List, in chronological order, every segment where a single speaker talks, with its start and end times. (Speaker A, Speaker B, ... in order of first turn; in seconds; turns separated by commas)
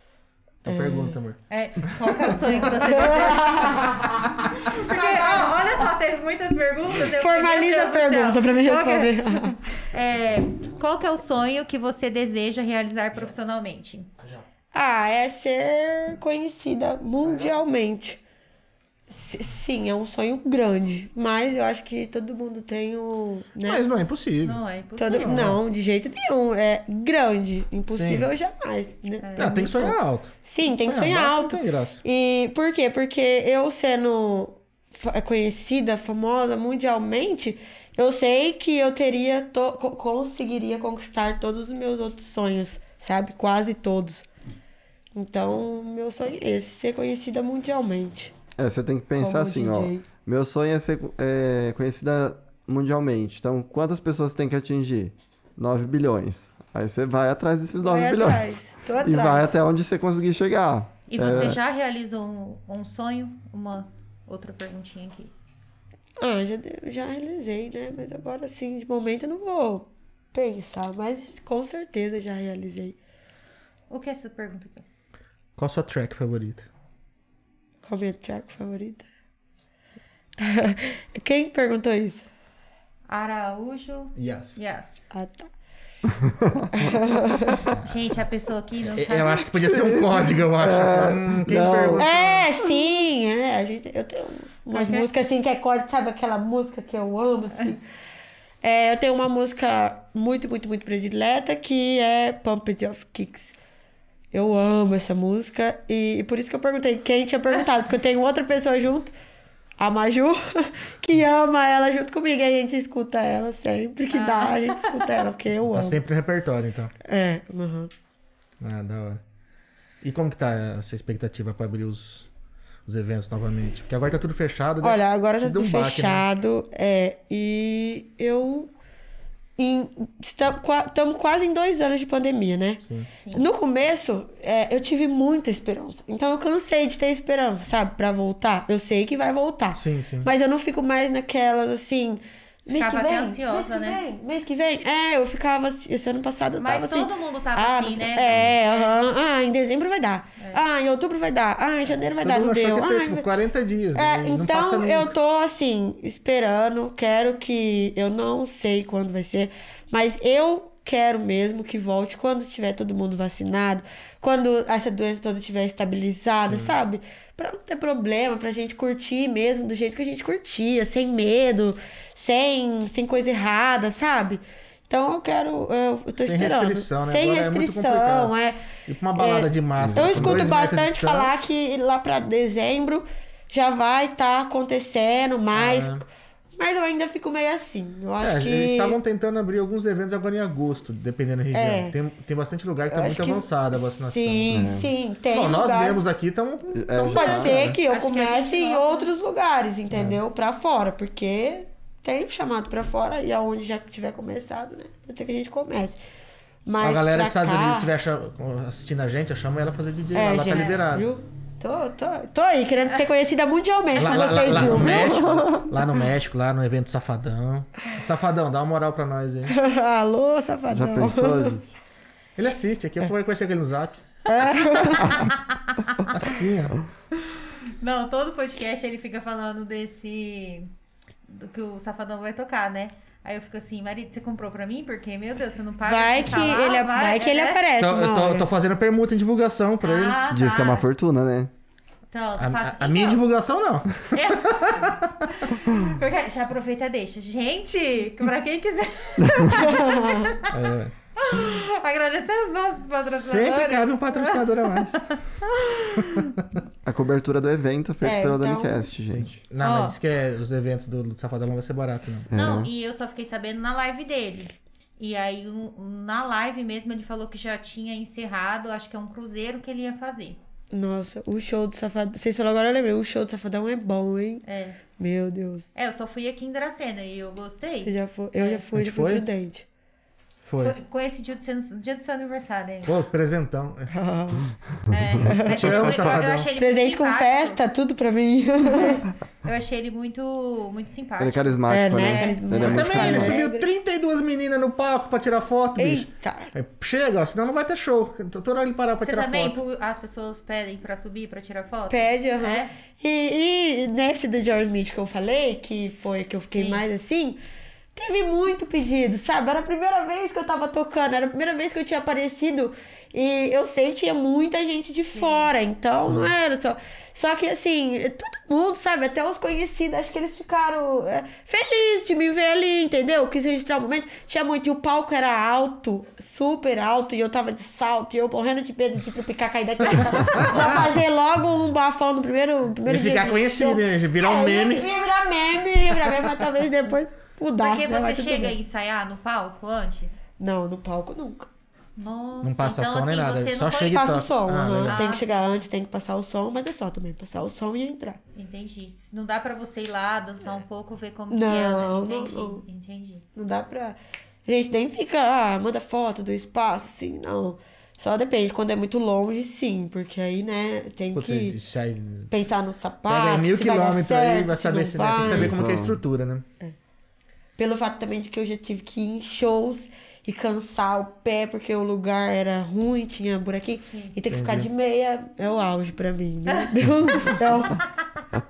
Speaker A: 0.6-2.8, Speaker B: 0.7-1.2, Speaker C: 1.5-14.1, Speaker B: 2.8-4.1, Speaker B: 4.7-5.5, Speaker B: 7.1-9.6, Speaker B: 14.7-18.2, Speaker B: 19.1-23.8, Speaker A: 23.6-25.6, Speaker C: 24.4-25.4, Speaker B: 25.0-44.3, Speaker A: 27.9-28.3, Speaker C: 29.2-29.9, Speaker A: 29.4-32.0, Speaker B: 45.1-48.3, Speaker D: 48.6-61.6, Speaker B: 49.2-50.0, Speaker B: 57.8-59.5, Speaker C: 61.1-65.3, Speaker B: 66.2-73.0, Speaker C: 73.9-74.8, Speaker A: 75.6-76.7, Speaker B: 77.8-79.1, Speaker B: 80.4-82.2, Speaker C: 83.1-85.0, Speaker A: 84.2-84.6, Speaker B: 85.1-85.5, Speaker B: 86.7-87.7, Speaker A: 87.7-88.1, Speaker C: 87.8-89.5, Speaker A: 88.9-92.5, Speaker D: 89.7-92.1, Speaker B: 92.0-97.8, Speaker C: 94.7-95.1, Speaker B: 98.6-103.5, Speaker B: 104.3-109.1, Speaker B: 109.8-116.0, Speaker C: 114.1-115.1, Speaker A: 115.7-116.9, Speaker B: 117.0-117.9, Speaker A: 118.6-119.2, Speaker A: 120.0-122.3, Speaker A: 122.8-126.2, Speaker B: 124.8-128.7, Speaker B: 129.6-132.8, Speaker A: 132.8-133.1, Speaker C: 133.2-133.5, Speaker B: 133.3-153.3, Speaker A: 139.7-140.3, Speaker C: 142.8-144.0, Speaker C: 146.6-149.1, Speaker A: 152.2-155.1, Speaker B: 153.9-178.6, Speaker A: 166.5-166.7, Speaker A: 176.2-178.3, Speaker A: 178.8-181.4, Speaker B: 179.2-189.0, Speaker D: 179.8-180.6, Speaker A: 185.5-186.0, Speaker A: 188.2-194.7, Speaker B: 191.5-191.9, Speaker B: 192.9-196.0, Speaker D: 194.5-194.9, Speaker A: 195.3-197.8, Speaker D: 196.7-197.7, Speaker B: 197.1-206.0, Speaker C: 197.8-199.1, Speaker A: 199.9-200.2, Speaker B: 206.7-207.9, Speaker A: 206.8-211.1, Speaker B: 210.1-215.3, Speaker C: 210.5-210.8, Speaker A: 213.9-219.5, Speaker C: 213.9-214.7, Speaker D: 214.7-215.6, Speaker B: 219.5-221.6, Speaker D: 220.7-221.7, Speaker A: 222.3-224.0, Speaker B: 224.3-225.3, Speaker C: 225.1-225.4, Speaker A: 226.1-226.8, Speaker C: 227.3-230.7, Speaker C: 231.3-237.6, Speaker B: 235.8-238.5, Speaker A: 237.8-240.2, Speaker C: 239.8-240.8, Speaker D: 240.3-241.5, Speaker C: 242.1-243.2, Speaker A: 242.4-245.4, Speaker C: 244.1-250.6, Speaker D: 249.2-249.5, Speaker B: 249.5-250.4, Speaker A: 250.5-250.9, Speaker C: 251.2-256.3, Speaker A: 253.0-255.2, Speaker A: 256.0-256.4, Speaker D: 256.8-259.4, Speaker B: 258.0-258.9, Speaker A: 259.0-262.3, Speaker C: 259.6-260.0, Speaker D: 262.3-262.7, Speaker C: 262.3-270.4, Speaker B: 270.7-274.4, Speaker C: 274.4-274.8, Speaker B: 275.0-275.7, Speaker C: 275.7-278.6, Speaker B: 277.8-279.6, Speaker A: 278.7-279.2, Speaker A: 280.4-280.8, Speaker C: 280.6-283.0, Speaker A: 282.8-283.9, Speaker B: 283.9-284.4, Speaker C: 284.9-287.6, Speaker B: 285.2-289.1, Speaker A: 285.5-286.5, Speaker C: 288.7-292.8, Speaker D: 291.2-293.4, Speaker B: 291.7-293.7, Speaker A: 292.6-299.6, Speaker B: 295.8-296.5, Speaker C: 299.0-302.7, Speaker B: 301.9-307.4, Speaker C: 306.5-306.8, Speaker B: 307.9-338.5, Speaker C: 315.1-315.5, Speaker A: 315.9-316.3, Speaker A: 330.0-330.9, Speaker A: 332.8-335.0, Speaker C: 337.6-340.2, Speaker B: 340.4-341.5, Speaker C: 341.9-344.2, Speaker A: 342.4-345.1, Speaker B: 343.8-348.2, Speaker C: 344.9-345.4, Speaker C: 348.3-353.2, Speaker B: 351.3-352.6, Speaker B: 353.4-361.6, Speaker A: 361.1-362.3, Speaker B: 362.3-365.6, Speaker A: 363.1-366.4, Speaker D: 365.2-365.9, Speaker B: 367.6-377.8, Speaker C: 373.8-374.1, Speaker A: 374.3-374.7, Speaker C: 376.5-377.8